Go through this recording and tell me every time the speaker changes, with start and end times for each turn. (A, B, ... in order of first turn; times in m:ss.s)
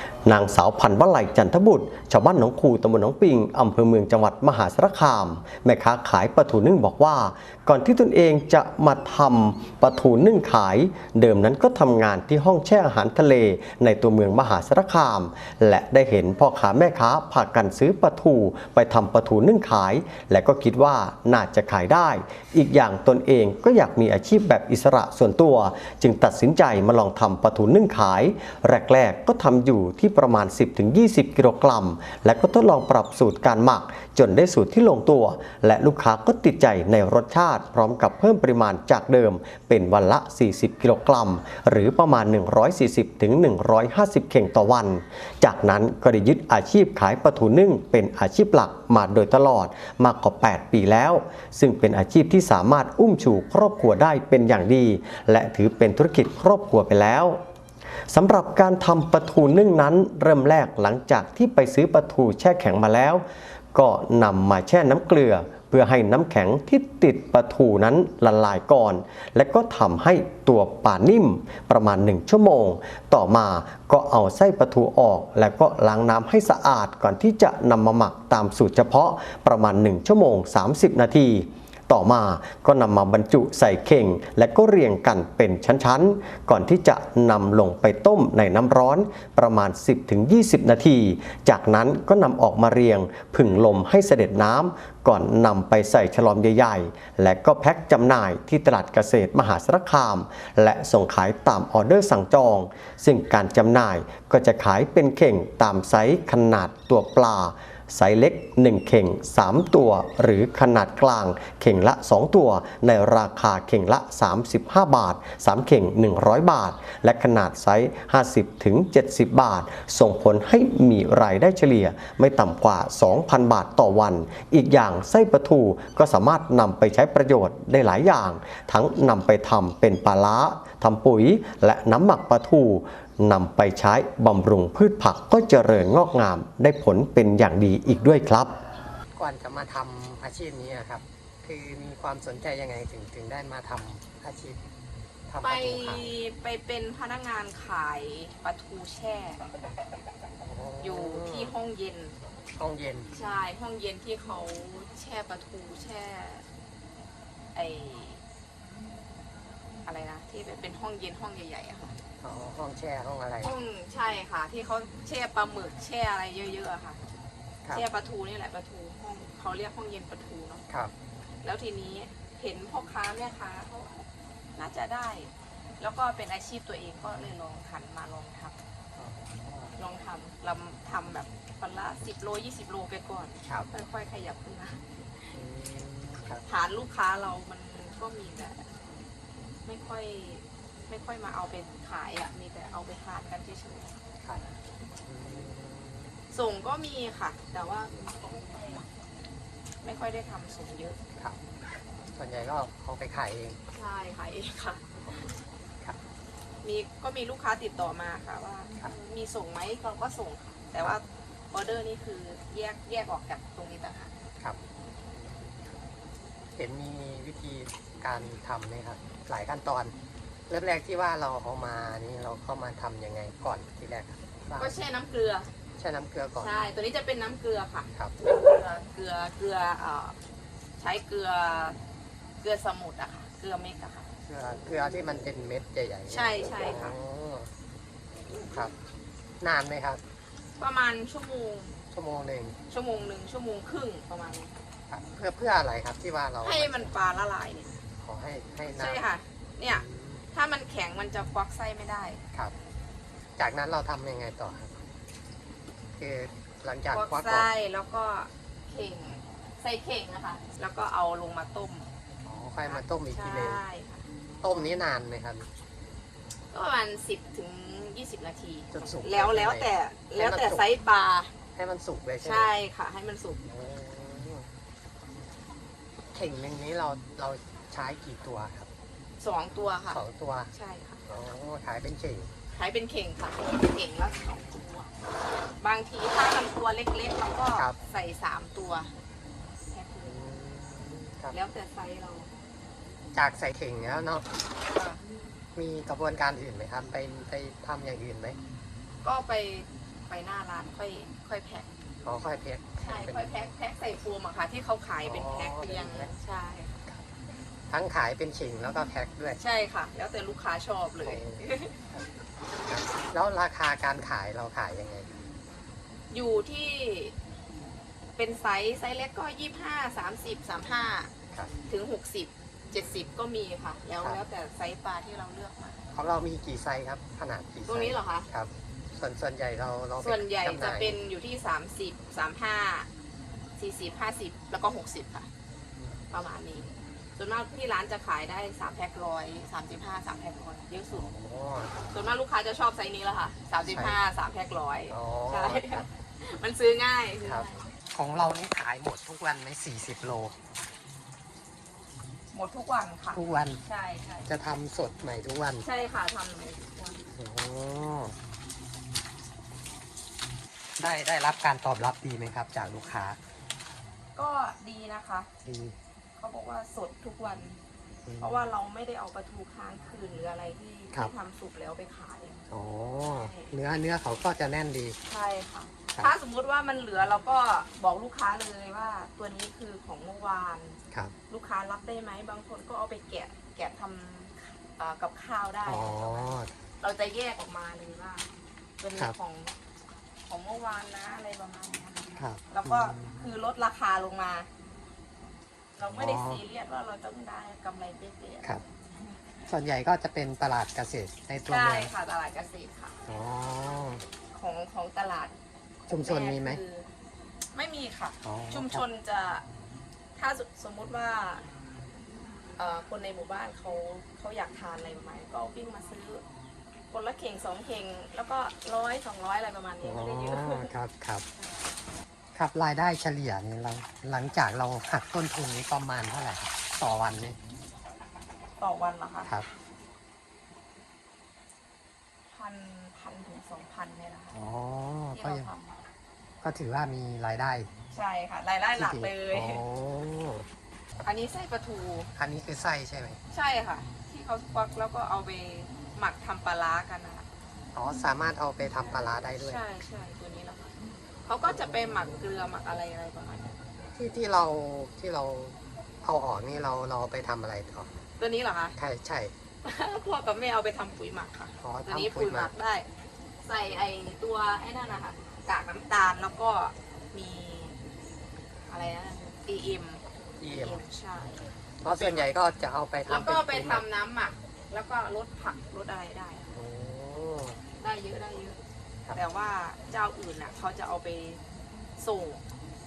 0:00.2-0:57.4 A
0:58.1-2:18.5 A
2:19.2-2:24.6 B
2:25.3-2:26.1 B
2:25.4-2:29.4 C
2:30.4-2:31.5 B
2:30.8-2:32.2 C
2:32.6-2:33.1 B
2:33.1-2:36.4 C
2:37.5-2:38.2 C
2:39.8-2:42.0 C
2:42.2-2:43.5 B
2:43.4-2:47.0 C
2:47.7-2:50.6 C
2:51.4-2:54.0 C
2:54.6-2:58.6 C
2:59.0-2:59.7 B
2:59.8-3:05.3 C
3:05.3-3:06.4 B
3:06.4-3:08.7 C
3:09.6-3:14.0 C
3:14.2-3:14.5 B
3:15.0-3:16.2 B
3:16.3-3:18.9 C
3:19.8-3:21.0 C
3:22.1-3:23.6 B
3:23.7-3:25.3 C
3:26.6-3:34.1 C
3:35.1-3:35.7 B
3:36.6-3:40.0 B
3:40.5-3:44.8 B
3:44.6-3:45.5 C
3:45.8-3:46.5 B
3:46.4-3:50.2 C
3:50.8-3:51.8 C
3:52.4-3:54.1 C
3:54.3-3:57.5 B
3:56.1-3:57.0 C
3:58.4-3:58.7 B
3:59.4-4:00.0 B
4:00.6-4:01.8 C
4:01.9-4:02.6 B
4:02.7-4:04.5 C
4:04.9-4:06.9 B
4:06.4-4:07.8 C
4:08.0-4:09.0 B
4:08.7-4:12.2 C
4:09.7-4:10.3 B
4:13.4-4:14.8 B
4:15.9-4:17.5 B
4:16.9-4:21.9 C
4:22.2-4:23.6 B
4:22.6-4:24.7 C
4:24.4-4:25.5 B
4:26.5-4:31.3 C
4:28.7-4:30.6 B
4:31.5-4:32.5 B
4:32.2-4:33.4 C
4:33.5-4:34.5 B
4:36.1-4:38.7 B
4:39.2-4:40.0 C
4:39.9-4:40.5 B
4:40.5-4:41.0 C
4:41.1-4:42.3 B
4:42.5-4:44.9 C
4:45.6-4:48.9 C
4:49.7-4:50.2 C
4:50.0-4:51.4 B
4:51.3-4:52.3 C
4:53.1-4:54.3 B
4:54.7-4:55.0 C
4:55.5-4:58.4 B
4:59.0-5:01.7 C
5:02.0-5:03.3 B
5:02.8-5:06.8 C
5:05.0-5:06.1 B
5:07.7-5:09.4 B
5:09.4-5:11.8 C
5:11.0-5:12.1 B
5:12.6-5:15.2 B
5:16.1-5:17.1 C
5:18.2-5:21.1 C
5:21.7-5:25.8 C
5:25.9-5:31.0 B
5:27.7-5:28.3 C
5:30.0-5:32.9 C
5:33.6-5:35.3 C
5:36.1-5:41.1 C
5:40.9-5:41.9 B
5:41.9-5:47.6 C
5:43.6-5:44.0 B
5:44.9-5:45.9 B
5:47.2-5:50.4 B
5:52.3-5:54.3 C
5:53.1-5:53.6 B
5:54.2-5:55.6 B
5:55.6-5:57.0 C
5:57.1-5:58.2 B
6:00.8-6:03.2 B
6:04.2-6:05.3 C
6:05.4-6:05.8 B
6:06.2-6:07.6 C
6:08.0-6:08.4 B
6:08.2-6:12.4 C
6:12.5-6:15.0 B
6:13.0-6:13.5 C
6:15.0-6:20.8 C
6:21.3-6:28.3 C
6:25.6-6:26.6 B
6:28.8-6:29.5 C
6:30.3-6:34.5 C
6:32.2-6:33.2 B
6:35.8-6:39.1 C
6:35.9-6:36.4 B
6:39.5-6:41.9 B
6:41.4-6:43.0 C
6:43.1-6:44.0 B
6:44.3-6:45.3 C
6:45.9-6:46.9 C
6:45.9-6:46.6 B
6:47.5-6:49.4 C
6:48.2-6:48.8 B
6:50.2-6:51.5 C
6:52.6-6:56.2 C
6:56.9-7:00.7 C
6:59.8-7:01.2 B
7:02.3-7:07.4 B
7:08.6-7:09.3 C
7:12.3-7:14.4 C
7:14.3-7:15.5 B
7:15.1-7:15.8 C
7:16.4-7:17.7 B
7:17.9-7:19.6 C
7:18.8-7:20.5 B
7:21.0-7:22.1 C
7:22.2-7:23.2 B
7:23.3-7:27.2 C
7:27.7-7:29.6 B
7:29.4-7:30.7 C
7:31.2-7:33.6 C
7:33.9-7:37.9 B
7:38.2-7:38.8 C
7:38.8-7:39.3 B
7:39.6-7:42.9 C
7:41.6-7:42.5 B
7:43.4-7:47.8 C
7:48.7-7:52.3 C
7:50.4-7:50.8 B
7:51.8-7:53.8 B
7:53.1-7:56.5 C
7:56.5-7:57.6 B
7:57.8-7:58.6 C
7:59.1-8:01.4 C
8:02.0-8:02.4 C